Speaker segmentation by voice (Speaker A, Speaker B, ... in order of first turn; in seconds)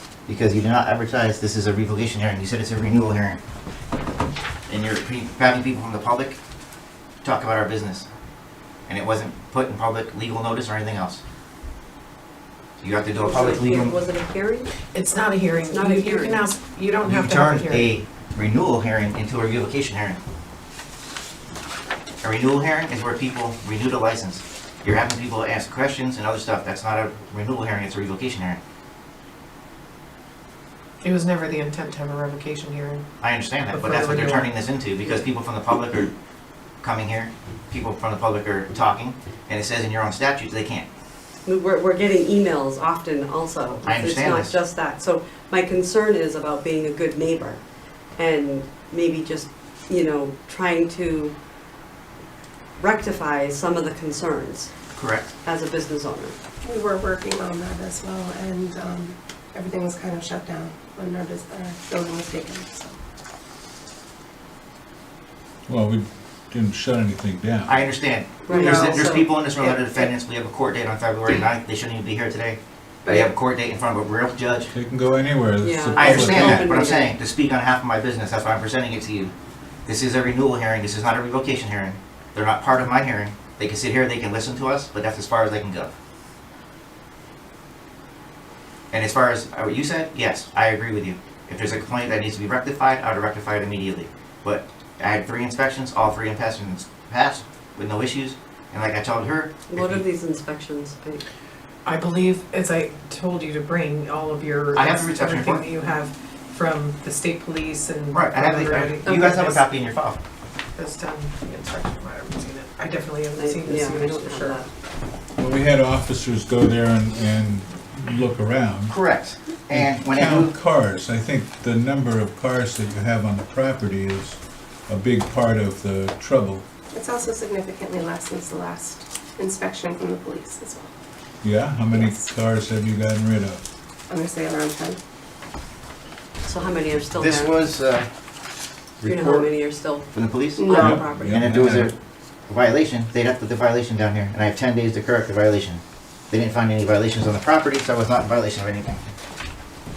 Speaker A: 0.3-3.4, 4.7-6.4, 7.2-8.1, 8.9-11.2, 12.8-14.0, 17.0-20.2, 22.2-28.6, 33.2-36.1, 36.8-40.9, 43.8-44.5, 55.0-55.3, 67.7-74.7, 76.0-79.3, 79.9-85.9, 88.9-100.0, 104.8-105.7, 108.1-110.2, 118.9-120.5, 137.2-138.1, 139.0-139.5, 140.1-141.9, 142.5-149.1
Speaker B: 13.2-14.7, 15.5-16.4, 41.5-47.6, 48.2-51.4, 52.8-54.8, 55.4-56.4, 68.5-69.4, 75.6-77.1, 99.7-101.2, 113.4-114.7, 136.4-137.6, 139.0-141.4
Speaker C: 14.9-17.9, 31.0-33.1, 33.7-34.5, 101.8-109.7, 110.8-114.6
Speaker D: 56.6-63.0, 68.5-69.1, 69.6-70.1, 73.0-73.3, 126.9-130.9, 131.9-132.3, 134.1-135.0, 140.6-141.4
Speaker E: 65.7-67.8, 74.7-76.7, 115.4-119.0, 119.7-126.7, 131.4-133.6, 140.7-141.9